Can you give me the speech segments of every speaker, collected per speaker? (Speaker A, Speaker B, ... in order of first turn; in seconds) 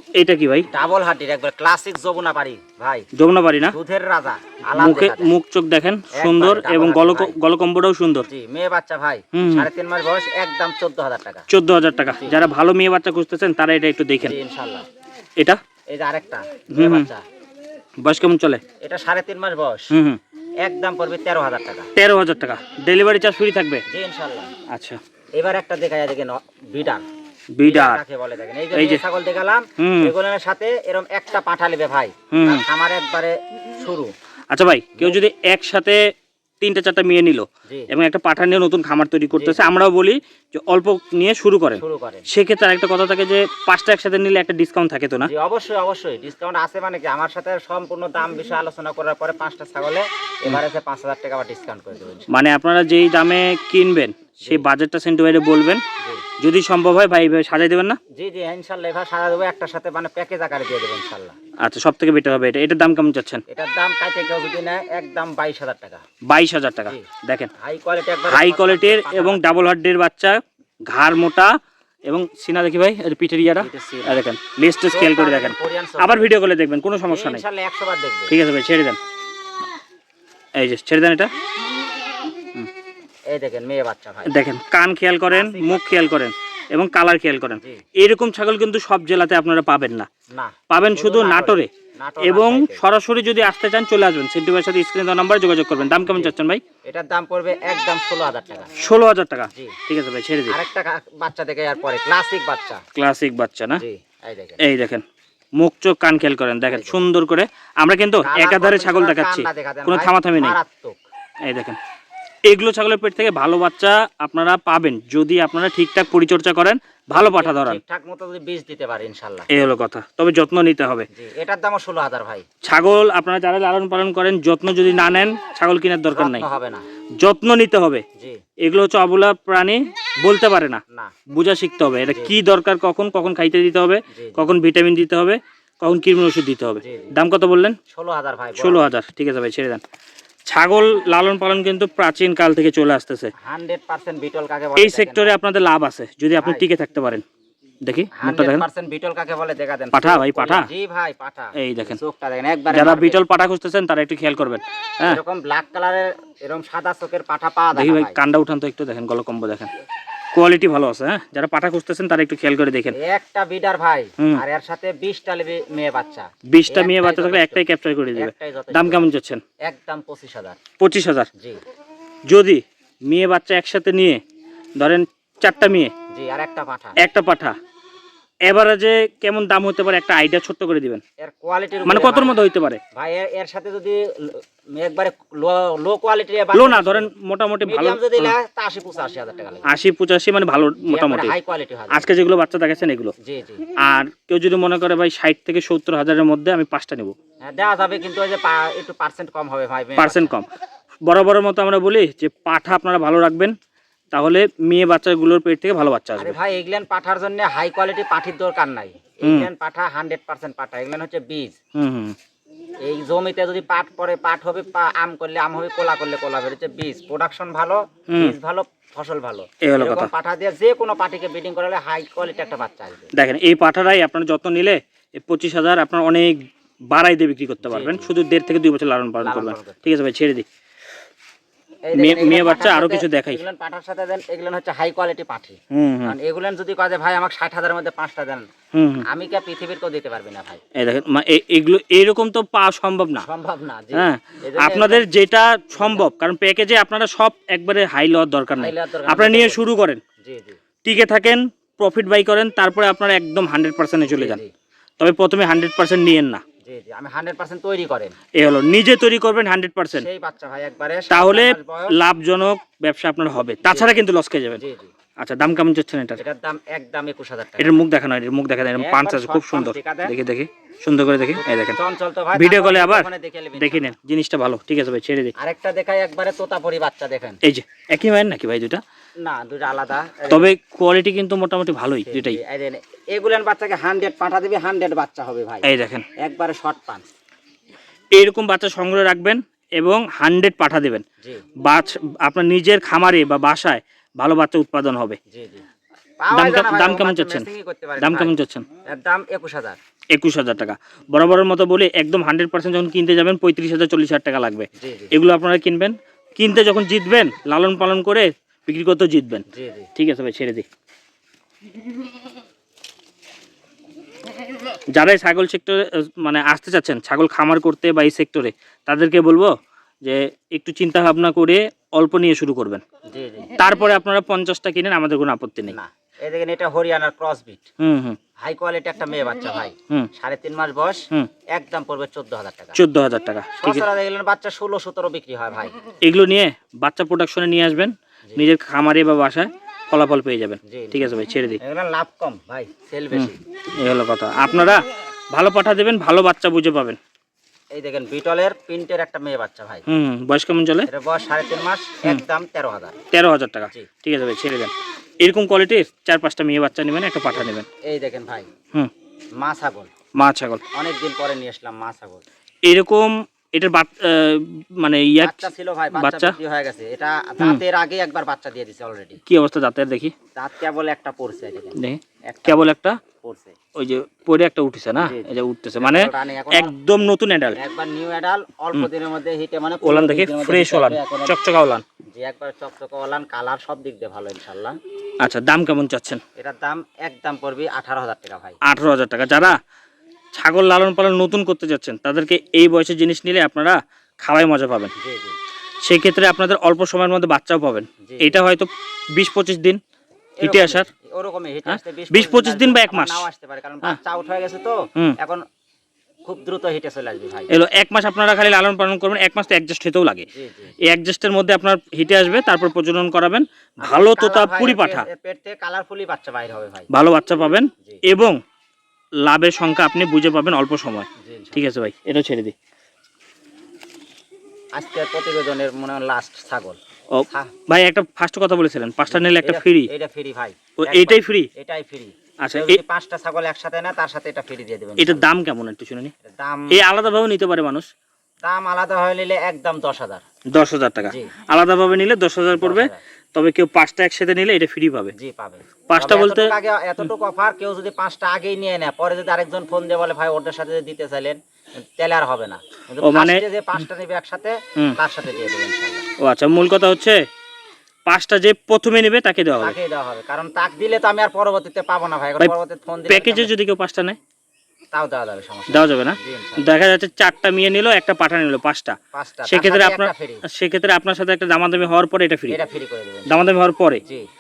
Speaker A: 0.2-0.7, 3.1-3.8, 4.8-8.3, 9.3-9.7, 11.5-14.4, 16.7-17.1, 18.0-18.6, 19.9-20.2, 21.9-23.8, 24.7-25.0, 27.5-28.0, 28.7-29.0, 29.8-30.1, 32.3-32.6, 34.5-36.0, 36.6-45.3, 52.3-55.8, 56.4-58.0, 61.6-63.4, 66.3-67.5, 68.3-71.5, 72.1-77.4, 78.3-79.0, 80.6-81.3, 84.3-90.1, 90.7-91.7, 92.2-96.6, 98.8-100.6, 103.0-103.8, 104.6-105.0, 105.6-110.6, 111.4-111.8, 112.5-117.8, 119.5-121.1, 122.6-126.5, 127.2-128.0, 128.6-130.8, 131.3-137.8, 138.6-139.8, 140.5-143.3, 144.8-147.2, 147.8-148.6, 149.9-150.7, 151.6-152.0, 152.7-155.2, 157.7-159.7, 160.3-163.0, 166.5-169.4, 170.8-171.3, 172.3-174.2, 174.8-175.9, 177.0-177.6, 178.5-181.0, 181.8-182.8, 186.5-188.3, 189.7-191.3, 191.9-193.1, 193.8-197.2, 200.0-200.5, 201.1-203.6, 204.1-206.4, 209.2-209.5, 211.8-212.2, 218.1-218.3, 219.6-220.1, 223.1-230.5, 231.9-233.4, 235.7-236.2, 238.7-239.1, 240.8-243.3, 243.9-250.0, 250.8-254.4, 255.0-256.4, 258.4-260.1, 261.1-264.6, 265.2-266.2, 267.6-271.8, 272.4-275.3, 277.4-278.8, 280.3-282.4, 285.6-286.1, 288.2-291.0, 291.6-295.2, 296.3-297.5, 298.0-298.6, 300.1-309.4, 309.9-310.7, 314.9-319.5, 320.0-322.8, 323.6-325.8, 327.8-328.2, 332.8-333.9, 336.0-341.6, 343.1-344.8, 345.3-347.0, 349.9-350.9, 353.1-357.7, 360.2-360.6, 362.6-366.4, 369.3-370.1, 371.8-373.0, 373.8-377.6, 379.8-381.9, 385.2-386.2, 388.6-389.6, 390.4-394.9, 395.8-399.8, 400.4-400.9, 401.7-403.3, 407.5-410.3, 410.8-415.1, 416.9-418.4, 419.2-422.6, 427.1-429.9, 430.8-431.5, 432.4-432.8, 435.0-436.1, 436.7-437.9, 440.5-445.1, 445.9-446.5, 453.0-453.4, 456.2-457.2, 458.1-459.8, 463.1-464.2, 465.7-472.6, 473.3-474.0
Speaker B: 0.7-3.1, 3.7-5.3, 6.1-7.3, 8.2-11.5, 14.2-14.9, 15.9-17.2, 18.8-19.9, 20.6-21.9, 23.9-24.5, 25.4-27.0, 27.6-34.1, 39.3-39.6, 41.8-42.3, 45.2-52.3, 58.1-61.4, 63.5-66.0, 67.6-69.5, 73.6-74.2, 74.9-76.3, 77.0-78.3, 83.3-84.3, 85.3-86.1, 90.3-92.8, 96.1-96.3, 96.9-98.7, 100.5-102.8, 103.7-104.6, 106.7-107.0, 108.2-111.0, 117.1-119.5, 121.1-122.5, 126.1-126.9, 132.1-132.3, 134.1-134.5, 136.8-137.1, 137.9-138.9, 143.4-145.4, 146.4-146.7, 148.2-153.2, 155.0-158.2, 162.9-169.1, 169.7-170.6, 176.1-177.0, 181.2-182.4, 182.9-187.1, 187.7-189.7, 190.9-192.1, 193.2-193.6, 197.4-200.3, 206.2-211.6, 212.8-223.1, 227.6-228.1, 229.2-229.9, 231.9-238.5, 239.1-240.6, 243.2-245.1, 245.7-246.1, 248.6-249.7, 250.2-250.6, 254.1-254.5, 256.6-258.1, 259.9-262.0, 263.7-264.0, 264.6-264.9, 266.2-267.8, 268.8-270.1, 271.3-273.9, 275.4-277.4, 279.2-280.5, 282.1-285.7, 286.2-287.1, 295.3-295.6, 296.2-299.8, 304.8-305.1, 309.5-309.9, 323.1-323.5, 325.7-327.6, 328.4-331.0, 331.6-332.8, 333.6-335.7, 340.7-341.1, 341.6-343.4, 347.8-349.9, 350.9-352.9, 357.8-358.5, 359.4-359.9, 360.7-362.2, 365.2-369.2, 370.4-372.7, 373.2-373.6, 375.0-376.7, 377.5-381.4, 382.1-384.8, 386.4-388.6, 395.0-395.4, 398.1-398.4, 400.4-405.4, 406.3-407.5, 410.3-410.7, 413.9-416.9, 421.2-421.7, 424.8-426.8, 429.0-435.2, 436.2-436.8, 438.4-440.2, 441.1-441.3, 442.6-443.0, 445.1-456.1, 459.6-463.5, 464.9-466.6, 469.1-470.4, 472.5-473.5